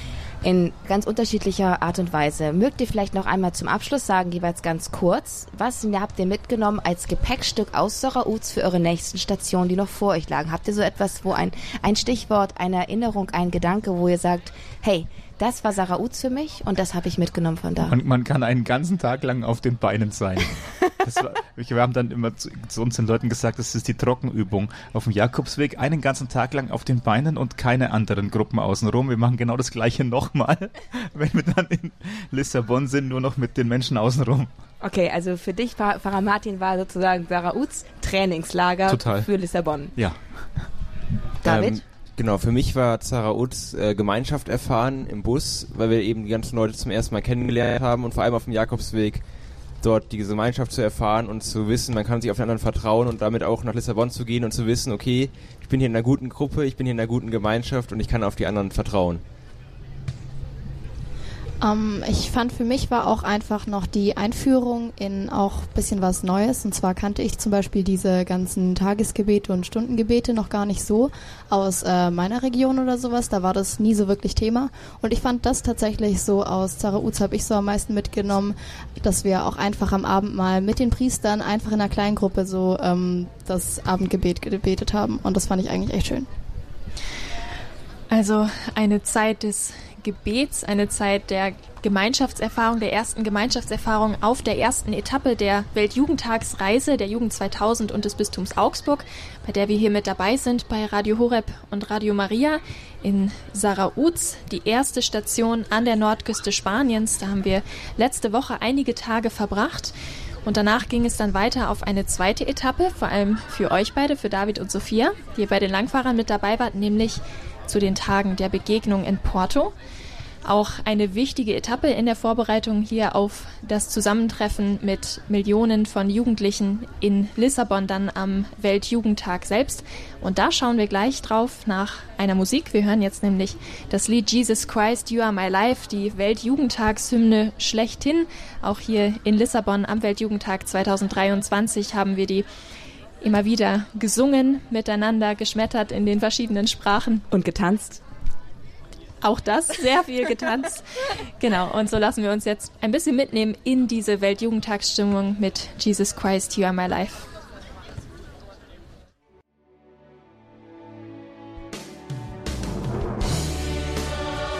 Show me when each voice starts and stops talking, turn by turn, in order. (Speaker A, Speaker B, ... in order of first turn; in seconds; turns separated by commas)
Speaker A: 0.4-17.9, Speaker B: 17.9-34.5, Speaker A: 34.8-39.9, Speaker B: 38.9-39.3, Speaker B: 39.9-40.7, Speaker A: 41.4-41.8, Speaker C: 41.4-49.2, Speaker C: 49.8-59.2, Speaker D: 61.6-86.3, Speaker E: 88.1-109.9, Speaker E: 110.4-119.7, Speaker E: 120.4-142.4, Speaker E: 143.2-147.2, Speaker A: 147.3-148.0, Speaker E: 149.2-157.3